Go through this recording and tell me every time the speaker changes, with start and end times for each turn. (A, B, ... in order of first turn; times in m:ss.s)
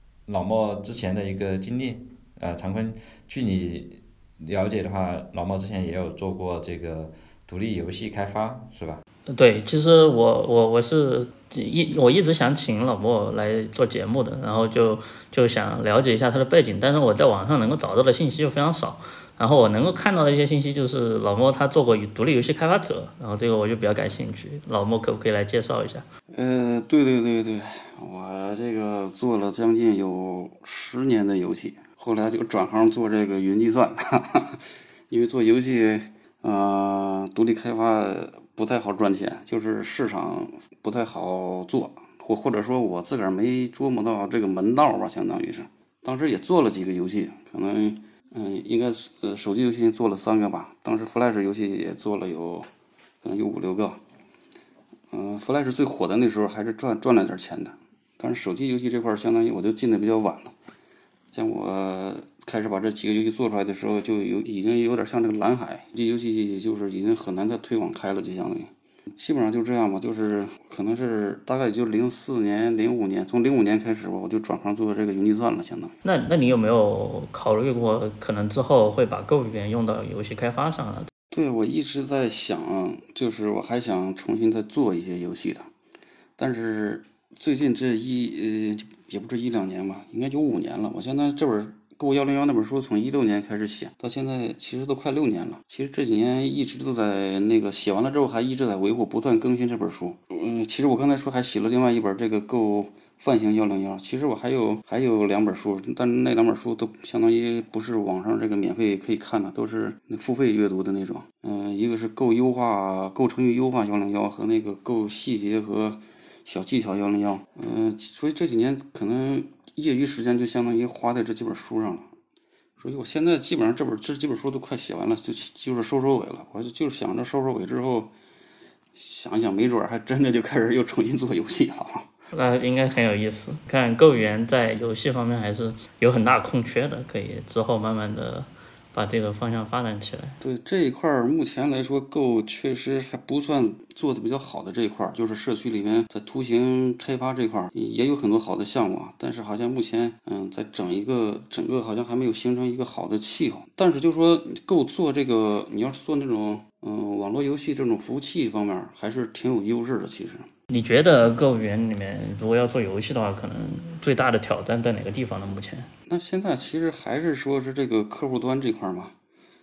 0:00.3-0:09.0 A
0:09.3-0:26.1 B
0:26.3-0:52.7 C
0:53.2-0:54.0 C
0:55.1-1:00.5 C
1:01.3-1:16.0 C
1:16.0-1:21.1 B
1:21.3-1:25.7 C
1:26.4-2:02.1 C
2:02.8-2:08.1 C
2:09.0-2:12.1 C
2:12.3-2:20.4 B
2:20.4-2:40.5 C
2:40.7-2:45.9 B
2:46.1-2:49.1 C